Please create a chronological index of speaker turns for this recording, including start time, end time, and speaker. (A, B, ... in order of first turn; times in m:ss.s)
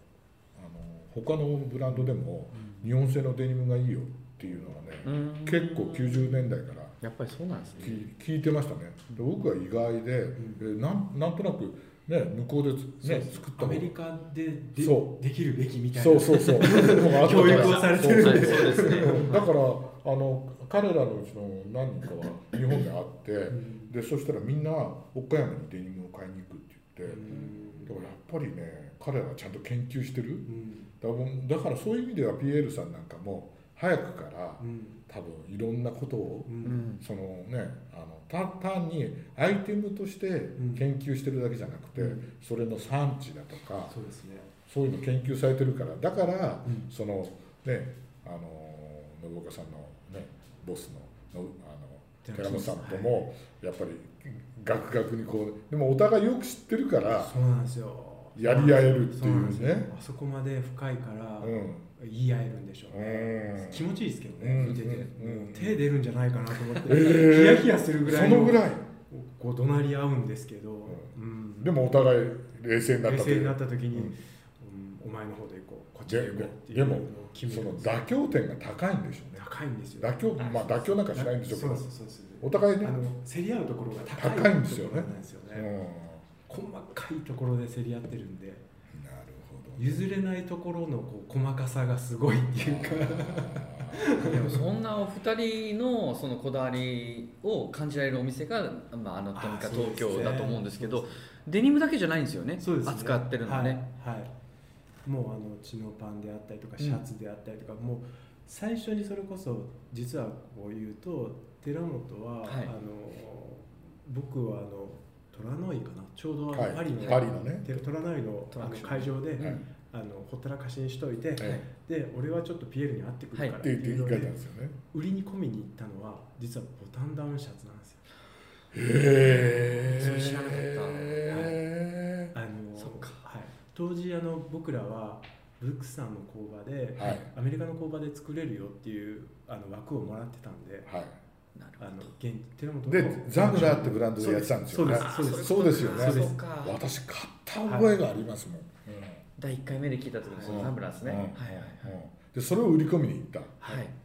0:00.6-0:07.0 A
0:01.9-0:02.8 B
0:04.7-0:05.0 B
0:05.0-0:08.0 C
0:07.8-0:13.9 A
0:10.4-0:10.7 B
0:13.0-0:19.3 B
0:14.8-0:15.1 A
0:15.9-0:30.5 A
0:16.6-0:19.5 C
0:23.5-0:23.9 B
0:27.0-0:28.1 B
0:30.5-0:30.9 B
0:31.0-0:44.0 A
0:34.6-0:35.0 B
0:36.5-0:36.8 B
0:36.6-0:37.0 C
0:40.6-0:40.9 B
0:42.0-0:42.3 B
0:43.9-0:44.5 B
0:44.7-0:57.3 A
0:46.6-0:46.9 B
0:52.2-0:53.2 B
0:57.1-1:11.7 B
0:58.4-0:59.9 A
1:01.4-1:01.9 A
1:02.9-1:05.9 A
1:06.6-1:08.9 A
1:10.9-1:14.2 A
1:13.0-1:18.1 B
1:16.0-1:19.5 A
1:19.3-1:20.2 B
1:20.0-1:21.9 A
1:20.4-1:21.3 C
1:21.4-1:25.7 B
1:22.4-1:23.0 A
1:24.1-1:26.3 A
1:26.5-1:28.7 B
1:28.9-1:30.1 A
1:29.8-1:34.6 B
1:32.6-1:34.5 A
1:34.2-1:43.8 C
1:39.3-1:41.3 B
1:42.6-1:44.3 B
1:45.0-2:04.3 B
1:52.4-1:52.7 C
1:56.5-1:57.8 A
1:58.5-1:59.6 C
2:01.4-2:01.6 C
2:03.6-2:04.8 A
2:04.9-2:08.0 B
2:08.7-2:12.3 A
2:09.2-2:11.2 C
2:11.3-2:11.6 B
2:12.3-2:20.9 B
2:12.8-2:13.2 C
2:17.0-2:17.3 A
2:20.8-2:21.1 A
2:21.6-2:22.1 C
2:21.8-2:26.4 B
2:22.9-2:29.3 A
2:24.9-2:26.8 C
2:27.6-2:28.0 B
2:29.4-2:32.0 C
2:30.2-2:30.7 B
2:30.4-2:33.6 A
2:33.6-2:33.9 C